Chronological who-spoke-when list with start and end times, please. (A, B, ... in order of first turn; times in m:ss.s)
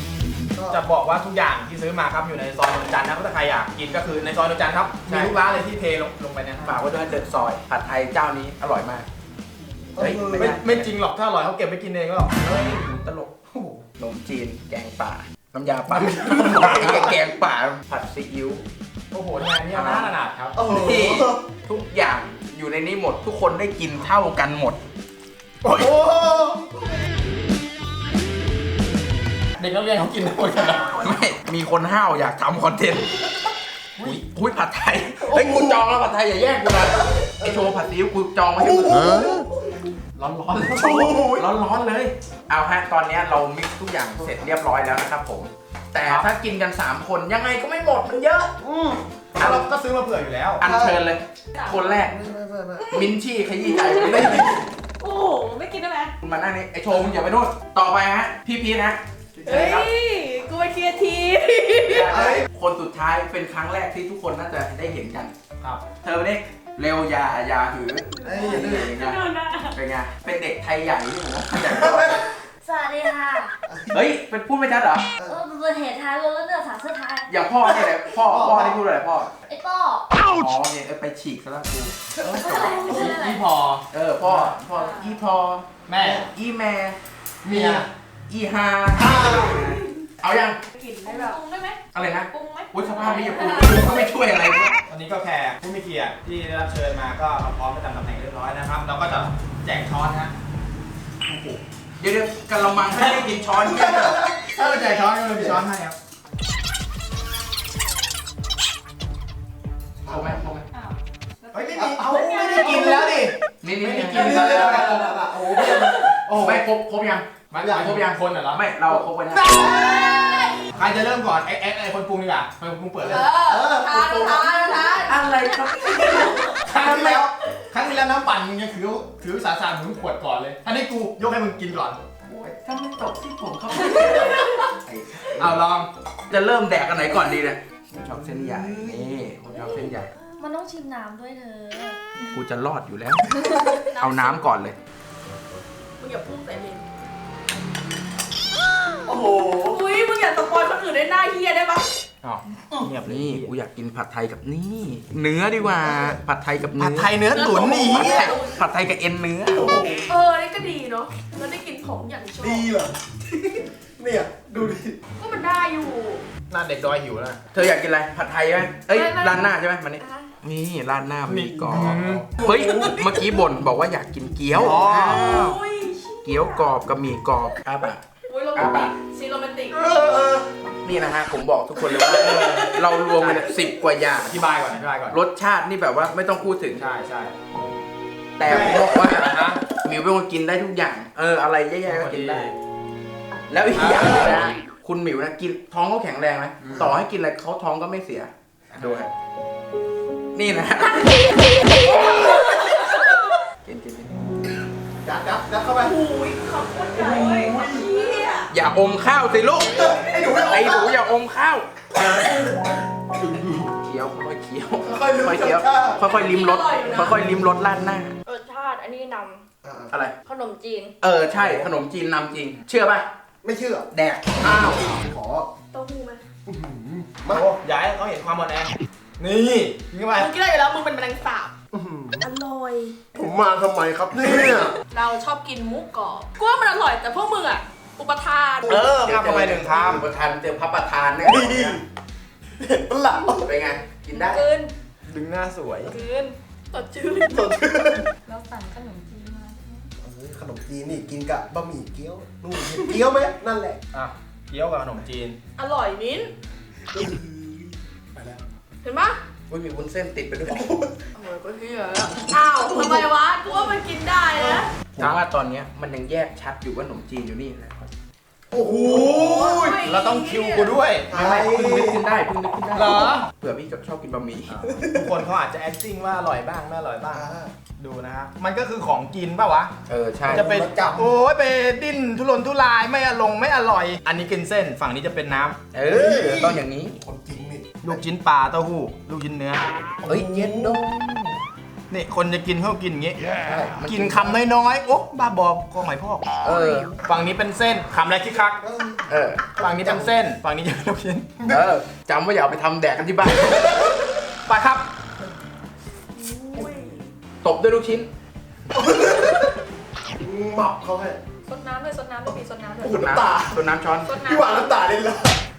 0:00.5-0:00.8 A
0:00.7-0:06.8 B
0:05.1-0:05.4 C
0:06.6-0:09.1 C
0:09.9-0:10.6 A
0:10.0-0:10.9 C
0:10.3-0:12.6 B
0:12.4-0:13.3 C
0:13.5-0:13.8 B
0:14.0-0:18.6 C
0:16.8-0:17.1 A
0:19.1-0:20.6 B
0:19.6-0:20.1 C
0:20.6-0:21.4 A
0:20.6-0:24.8 C
0:25.6-0:27.0 A
0:29.6-0:31.0 B
0:31.0-0:33.2 C
0:34.0-0:39.3 C
0:35.3-0:35.8 A
0:37.2-0:37.7 A
0:38.6-0:39.7 A
0:40.2-0:41.3 B
0:40.5-0:48.5 C
0:41.0-0:41.4 A
0:48.6-0:49.0 A
0:49.4-0:50.6 B
0:49.4-0:49.6 C
0:50.6-0:52.1 C
0:50.6-0:51.0 A
0:52.0-0:53.1 A
0:52.9-0:54.6 C
0:53.8-0:54.3 D
0:55.0-0:56.1 E
0:56.2-0:59.9 C
0:59.4-1:02.1 E
1:01.8-1:05.3 C
1:02.1-1:02.4 A
1:06.0-1:09.2 C
1:08.2-1:09.0 A
1:09.0-1:09.7 E
1:09.7-1:12.3 C
1:11.6-1:12.2 A
1:12.6-1:13.5 D
1:13.7-1:13.9 A
1:13.9-1:15.1 C
1:15.2-1:17.3 D
1:17.3-1:19.3 C
1:17.6-1:18.8 A
1:19.5-1:20.1 D
1:20.3-1:23.1 C
1:22.2-1:23.4 D
1:22.9-1:24.5 B
1:23.9-1:27.0 C
1:24.7-1:25.2 D
1:25.9-1:26.2 B
1:26.0-1:26.2 A
1:27.4-1:27.8 B
1:27.5-1:27.9 A
1:28.3-1:30.6 C
1:28.9-1:29.7 A
1:30.8-1:31.4 E
1:31.0-1:31.8 D
1:31.9-1:34.8 C
1:32.3-1:34.0 D
1:34.9-1:40.3 B
1:41.2-1:41.6 B
1:42.0-1:44.2 C
1:42.8-1:43.3 B
1:43.7-1:45.6 A
1:44.4-1:46.0 B
1:50.0-1:50.4 A
1:50.1-1:50.6 C
1:51.5-1:55.1 B
1:51.7-1:53.2 A
1:52.5-1:52.9 D
1:53.6-1:54.9 C
1:54.1-1:56.2 A
1:56.1-1:56.7 B
1:56.4-1:59.5 C
1:57.5-1:59.8 B
1:57.6-1:57.9 A
1:59.5-2:00.0 A
1:59.8-2:00.6 D
2:00.7-2:03.3 B
2:03.0-2:06.6 D
2:03.4-2:03.9 A
2:03.8-2:07.2 C
2:06.6-2:12.0 B
2:06.8-2:07.2 A
2:12.2-2:15.7 C
2:15.4-2:15.9 B
2:16.3-2:20.1 C
2:18.4-2:19.0 A
2:19.6-2:19.9 D
2:20.4-2:22.0 D
2:22.3-2:23.3 C
2:23.4-2:24.4 D
2:24.0-2:24.8 C
2:24.0-2:24.3 E
2:26.0-2:26.8 E
2:29.1-2:29.8 A
2:29.6-2:31.9 E
2:32.2-2:33.5 B
2:33.0-2:39.6 C
2:36.8-2:38.2 B
2:37.2-2:38.6 E
2:39.5-2:40.1 A
2:40.1-2:42.7 E
2:42.4-2:45.0 A
2:45.2-2:46.2 E
2:46.5-2:47.4 B
2:47.5-2:55.6 C
2:48.9-2:50.3 D
2:51.2-2:52.3 B
2:52.4-2:53.0 A
2:54.5-2:55.5 B
2:55.1-2:56.7 E
2:56.2-2:58.0 C
2:58.3-2:59.9 E
2:58.5-2:58.9 C
2:59.8-3:00.5 A
3:00.8-3:04.4 C
3:01.9-3:03.2 E
3:03.2-3:03.5 B
3:04.2-3:05.2 B
3:05.1-3:06.8 C
3:06.7-3:07.3 B
3:08.4-3:12.5 C
3:08.4-3:09.6 B
3:11.8-3:12.5 B
3:13.5-3:19.1 C
3:13.7-3:14.5 B
3:18.8-3:19.1 B
3:20.3-3:23.0 C
3:23.6-3:24.1 C
3:25.0-3:26.0 A
3:25.8-3:28.5 E
3:26.9-3:27.9 A
3:28.5-3:31.9 C
3:29.7-3:31.0 A
3:31.9-3:33.7 A
3:33.5-3:38.1 C
3:34.8-3:36.0 A
3:36.0-3:37.3 E
3:38.2-3:39.4 D
3:39.6-3:39.9 A
3:40.2-3:40.9 D
3:41.0-3:43.1 C
3:43.4-3:43.9 A
3:43.9-3:44.9 C
3:44.4-3:45.5 A
3:45.7-3:46.2 E
3:46.4-3:47.5 A
3:47.3-3:50.3 B
3:50.1-3:51.5 E
3:51.7-3:52.2 A
3:52.2-3:53.0 E
3:53.1-3:54.7 A
3:54.9-3:58.8 E
3:58.7-4:00.0 B
3:58.8-4:01.8 C
4:01.2-4:01.8 A
4:02.6-4:03.5 A
4:03.4-4:04.4 C
4:04.2-4:04.7 E
4:05.1-4:05.9 B
4:05.9-4:07.5 E
4:07.3-4:08.0 A
4:08.3-4:09.8 D
4:10.0-4:13.8 A
4:13.9-4:15.4 B
4:15.6-4:16.3 E
4:16.9-4:18.4 A
4:18.8-4:19.2 E
4:19.5-4:20.7 C
4:20.5-4:20.9 A
4:21.2-4:24.7 E
4:23.4-4:23.8 D
4:24.4-4:25.2 A
4:25.0-4:27.9 C
4:28.5-4:29.6 A
4:28.5-4:31.1 B
4:29.1-4:30.8 E
4:31.1-4:32.0 A
4:31.1-4:34.8 C
4:32.7-4:33.2 B
4:34.5-4:37.3 B
4:37.1-4:37.5 A
4:37.8-4:39.7 B
4:39.9-4:40.5 C
4:40.3-4:41.2 A
4:40.3-4:45.6 B
4:45.7-4:47.0 C
4:45.9-4:48.0 A
4:47.8-4:49.6 B
4:50.0-4:51.3 A
4:50.1-4:50.8 C
4:51.9-4:53.2 B
4:53.4-4:54.4 A
4:53.8-4:56.3 B
4:56.4-4:56.9 C
4:57.0-4:58.6 B
4:58.6-4:59.0 A
4:59.1-4:59.4 C
4:59.6-5:01.3 B
4:59.6-5:00.1 A
5:01.4-5:01.7 A
5:01.5-5:03.8 C
5:04.5-5:04.8 B
5:06.2-5:07.1 E
5:07.4-5:08.1 C
5:08.7-5:09.6 A
5:10.2-5:11.2 A
5:12.2-5:12.8 D
5:12.3-5:15.4 A
5:12.8-5:14.1 C